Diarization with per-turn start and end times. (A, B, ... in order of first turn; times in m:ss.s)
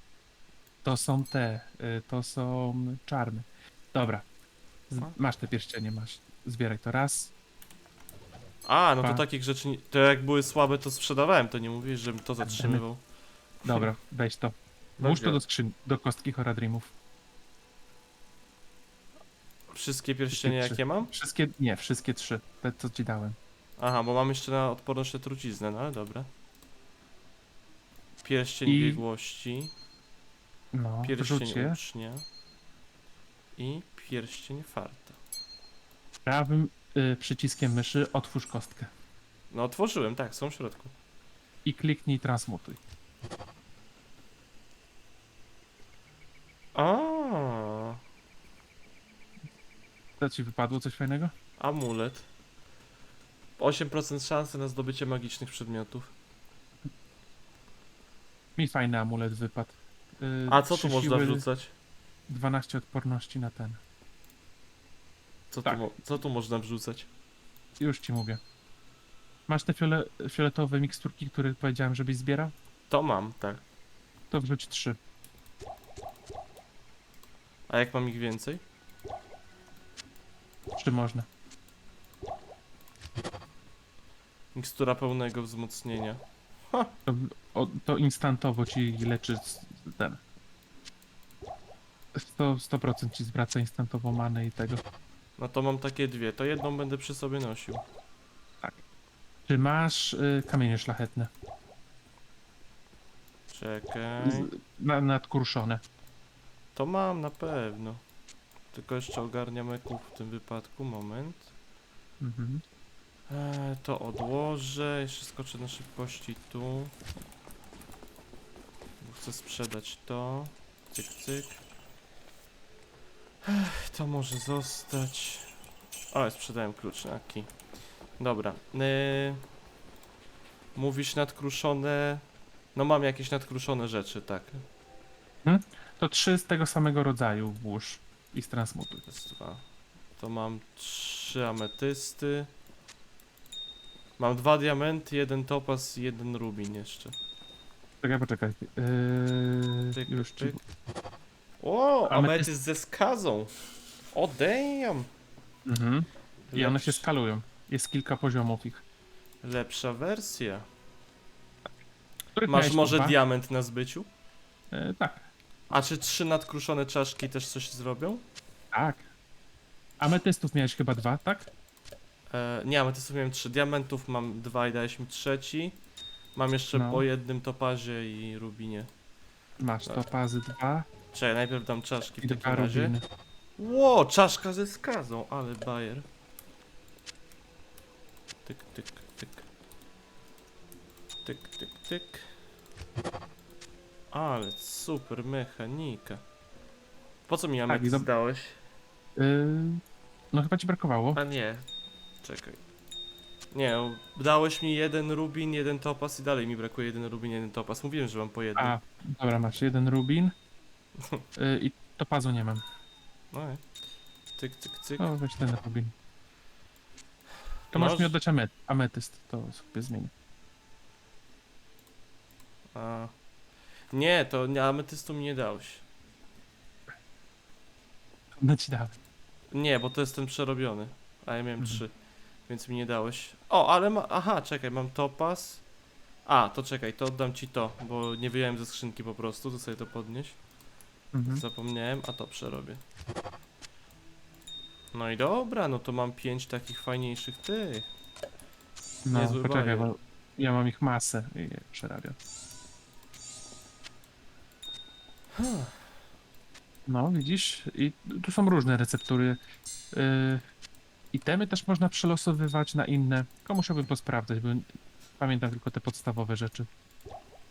0:00.8-0:04.3 A
0:04.9-0:07.3 A
0:08.6-0:13.0 B
0:12.4-0:12.8 A
0:13.6-0:16.9 A
0:13.7-0:13.9 B
0:15.0-0:15.4 B
0:19.7-0:21.1 B
0:20.3-0:23.4 A
0:23.8-0:26.3 B
0:28.2-0:29.7 B
0:28.7-0:29.0 A
0:30.7-0:31.8 A
0:31.0-0:32.2 B
0:33.6-0:35.2 B
0:36.3-0:38.9 A
0:39.5-0:40.9 B
0:41.6-0:42.8 A
0:46.8-0:48.0 B
0:50.2-0:51.3 A
0:51.6-0:52.3 B
0:53.6-0:56.1 B
0:58.6-1:01.5 A
1:00.5-1:01.7 B
1:02.3-1:03.8 A
1:05.5-1:07.1 B
1:07.8-1:08.4 A
1:09.5-1:12.5 A
1:12.9-1:13.6 B
1:14.3-1:15.0 A
1:17.7-1:18.6 B
1:20.8-1:21.3 A
1:24.6-1:26.9 B
1:27.1-1:30.2 A
1:32.2-1:34.8 A
1:35.4-1:37.8 B
1:39.5-1:41.3 A
1:43.5-1:44.5 B
1:44.2-1:45.8 A
1:46.8-1:48.0 B
1:48.7-1:51.5 B
1:52.2-1:52.6 A
1:53.3-1:56.9 B
1:59.0-2:01.6 B
2:03.4-2:05.6 B
2:06.1-2:07.5 B
2:08.2-2:09.4 B
2:10.8-2:12.2 B
2:12.8-2:14.6 B
2:15.4-2:19.1 A
2:19.1-2:19.6 B
2:20.2-2:22.5 B
2:24.2-2:27.2 B
2:28.0-2:30.6 A
2:29.9-2:30.6 B
2:31.6-2:33.5 B
2:32.1-2:32.5 A
2:34.1-2:35.1 B
2:35.7-2:38.8 A
2:36.5-2:37.1 B
2:39.4-2:40.6 B
2:42.4-2:43.2 A
2:42.5-2:44.1 B
2:44.7-2:45.3 A
2:45.7-2:48.2 B
2:48.7-2:49.1 A
2:50.0-2:51.5 A
2:52.3-2:55.8 B
2:56.4-2:58.9 B
2:56.7-2:57.0 A
2:59.6-3:00.9 A
3:01.1-3:03.0 B
3:02.2-3:03.0 A
3:03.6-3:06.0 B
3:08.4-3:09.5 B
3:11.2-3:12.3 B
3:14.1-3:16.2 B
3:17.3-3:18.6 B
3:17.7-3:18.1 A
3:19.2-3:19.8 A
3:20.3-3:21.2 A
3:21.1-3:21.7 B
3:22.2-3:22.6 B
3:23.5-3:28.8 B
3:28.6-3:30.3 A
3:31.4-3:32.6 A
3:33.3-3:33.6 B
3:34.4-3:35.1 B
3:35.0-3:35.9 A
3:37.7-3:38.2 B
3:37.7-3:40.1 A
3:42.7-3:43.1 B
3:43.9-3:45.8 B
3:48.4-3:48.9 A
3:49.5-3:51.9 B
3:52.5-3:55.6 B
3:56.3-4:00.4 B
4:01.1-4:01.4 A
4:01.2-4:02.8 B
4:04.9-4:07.9 B
4:09.0-4:12.2 A
4:09.1-4:09.9 B
4:15.4-4:15.8 B
4:16.9-4:19.4 A
4:19.9-4:20.4 A
4:21.1-4:26.7 A